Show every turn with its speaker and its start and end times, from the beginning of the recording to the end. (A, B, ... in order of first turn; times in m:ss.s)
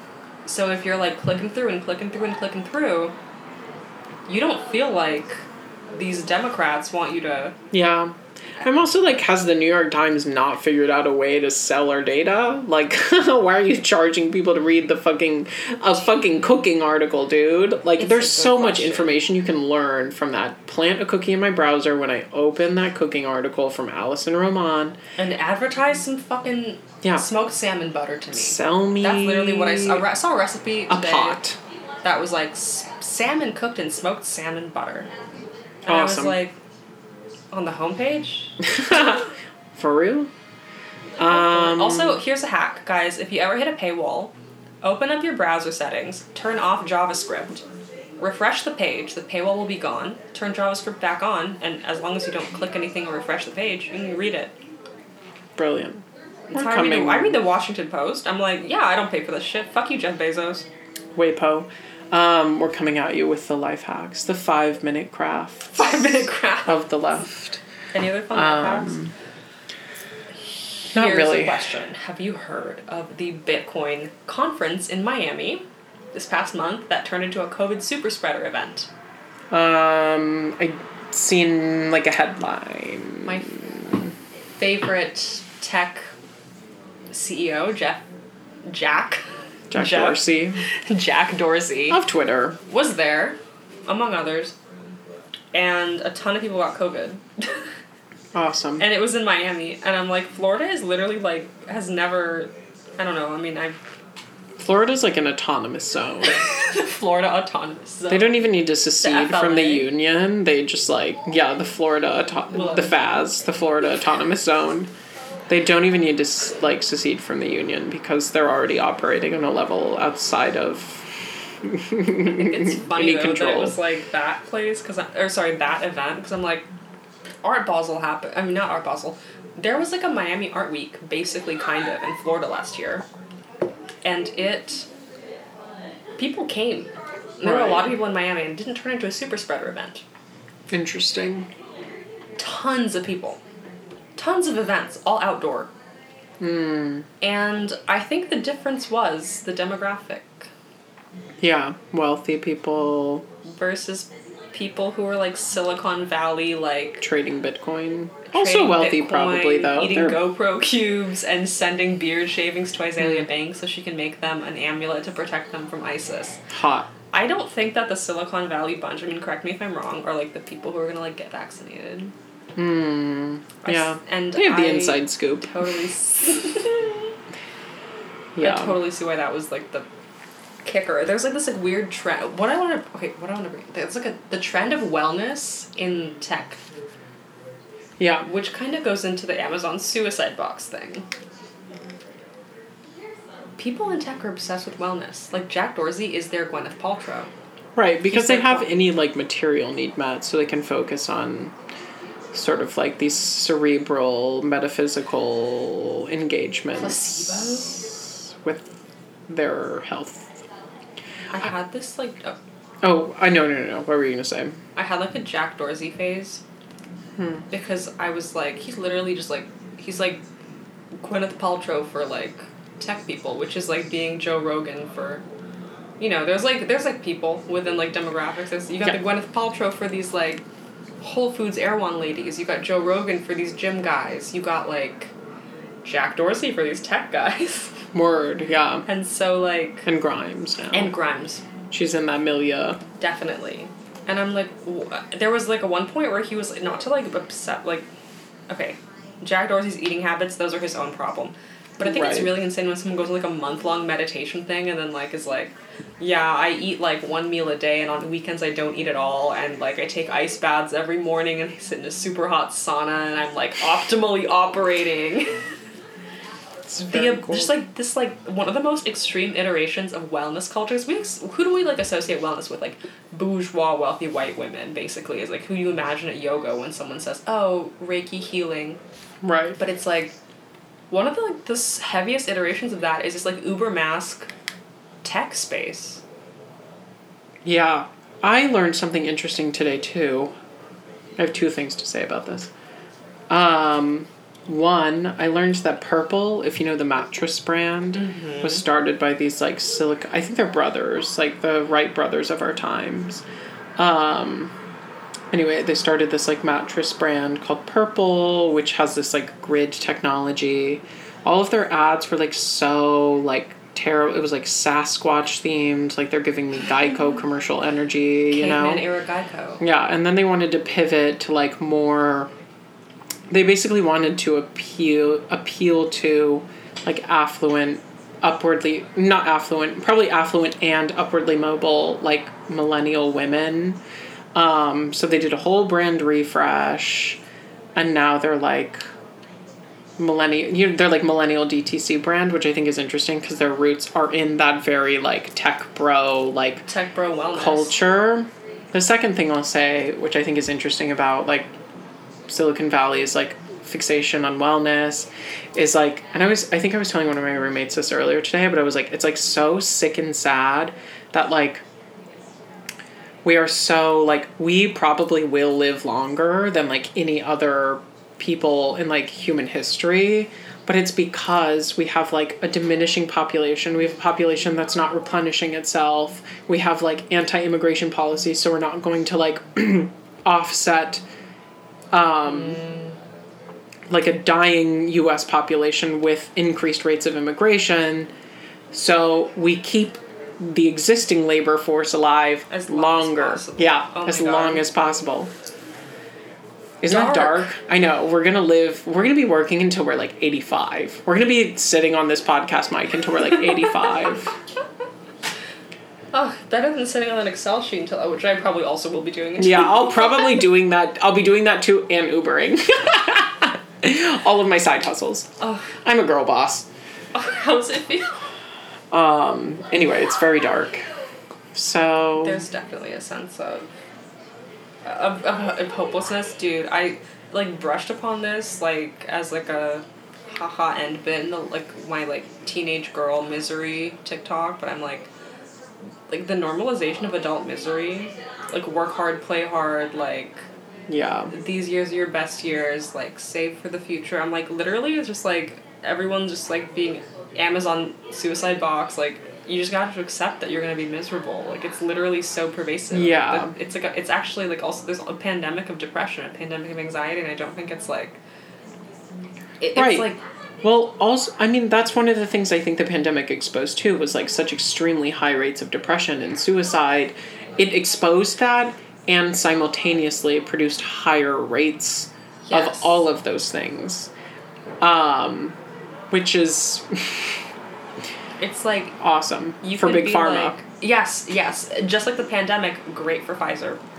0:00.4-0:03.1 A
0:04.3-0:07.5 A
0:07.7-0:25.0 B
0:18.0-0:19.2 A
0:25.2-0:31.4 A
0:28.3-0:30.0 B
0:30.9-0:31.6 B
0:32.0-0:35.1 A
0:35.8-0:36.6 A
0:35.9-0:36.4 B
0:37.5-0:39.2 A
0:38.7-0:39.2 B
0:39.7-0:40.3 B
0:41.2-0:42.2 B
0:41.2-0:47.6 A
0:48.2-0:54.5 A
0:55.6-0:57.4 B
0:56.5-1:00.6 A
1:01.1-1:07.6 B
1:05.7-1:06.8 A
1:07.9-1:09.0 A
1:08.3-1:09.1 B
1:10.9-1:11.6 B
1:10.9-1:18.9 A
1:19.5-1:24.1 B
1:23.2-1:23.5 A
1:24.6-1:26.1 A
1:27.1-1:28.0 A
1:28.6-1:29.2 A
1:29.7-1:30.6 B
1:29.7-1:30.3 A
1:30.8-1:32.0 A
1:31.9-1:32.6 B
1:32.7-1:34.5 A
1:35.5-1:37.6 A
1:38.3-1:38.8 B
1:38.8-1:43.8 A
1:44.6-1:46.4 B
1:46.2-1:49.9 A
1:48.1-1:54.9 B
1:52.5-1:52.9 A
1:55.5-2:03.7 B
2:02.2-2:06.6 A
2:07.4-2:13.0 A
2:14.0-2:14.9 A
2:16.2-2:20.0 A
2:17.4-2:17.9 B
2:20.7-2:21.5 B
2:22.4-2:23.4 A
2:24.2-2:25.7 A
2:26.4-2:27.1 B
2:27.2-2:30.5 A
2:31.4-2:33.2 B
2:33.4-2:37.0 A
2:37.0-2:40.2 B
2:38.3-2:46.4 A
2:43.0-2:43.2 B
2:46.5-2:46.9 B
2:47.1-2:52.1 A
2:52.6-2:55.5 B
2:53.6-2:57.0 A
2:58.4-2:58.8 B
2:58.4-2:59.8 A
3:00.6-3:06.6 A
3:08.0-3:08.2 B
3:08.2-3:11.0 A
3:13.6-3:17.3 A
3:17.8-3:21.5 B
3:18.1-3:18.7 A
3:22.3-3:28.7 B
3:26.8-3:27.8 A
3:29.3-3:30.4 B
3:31.3-3:32.4 A
3:32.8-3:34.6 B
3:34.7-3:36.4 A
3:37.2-3:37.4 B
3:37.5-3:40.2 A
3:41.0-3:45.2 A
3:46.0-3:50.4 A
3:51.0-3:55.1 A
3:55.8-3:57.7 A
3:57.9-3:58.8 B
3:58.8-3:59.8 A
3:59.8-4:00.9 B
4:00.7-4:01.4 A
4:01.7-4:02.8 B
4:03.0-4:07.8 A
4:08.5-4:25.3 A
4:11.8-4:12.4 B
4:26.6-4:27.5 B
4:26.9-4:38.8 A
4:39.2-4:39.6 B
4:39.6-4:40.1 A
4:40.9-4:44.3 A
4:45.0-4:46.0 A
4:47.4-4:50.3 B
4:51.2-4:52.5 B
4:53.3-5:03.2 B
4:57.9-4:58.6 A
5:03.8-5:04.5 B
5:05.3-5:18.8 B
5:18.3-5:19.6 A
5:19.6-5:22.3 B
5:23.3-5:33.8 B
5:34.3-5:37.2 B
5:37.8-5:38.8 B
5:40.0-5:46.6 B
5:46.7-5:47.8 A
5:47.3-5:51.5 B
5:52.3-6:01.6 B
6:03.2-6:21.0 B
6:21.9-6:22.6 B
6:23.9-6:28.1 B
6:28.7-6:35.3 B
6:32.5-6:34.6 A
6:36.8-6:44.3 B
6:36.9-6:37.5 A
6:46.1-6:50.3 A
6:49.4-6:55.3 B
6:55.4-6:55.7 A
6:55.8-6:56.7 B
6:57.1-6:58.1 A
6:58.9-7:00.8 B
7:01.5-7:02.4 B
7:02.2-7:03.7 A
7:04.8-7:15.1 A
7:16.1-7:20.4 A
7:20.9-7:21.3 B
7:21.3-7:38.2 A
7:32.9-7:33.5 B
7:39.6-7:40.2 A
7:39.7-7:40.1 B
7:40.6-7:54.1 B
7:52.5-7:52.9 A
7:54.8-7:55.6 B
7:56.1-7:57.4 B
7:58.4-7:59.0 A
7:59.0-8:00.6 B
7:59.6-8:03.8 A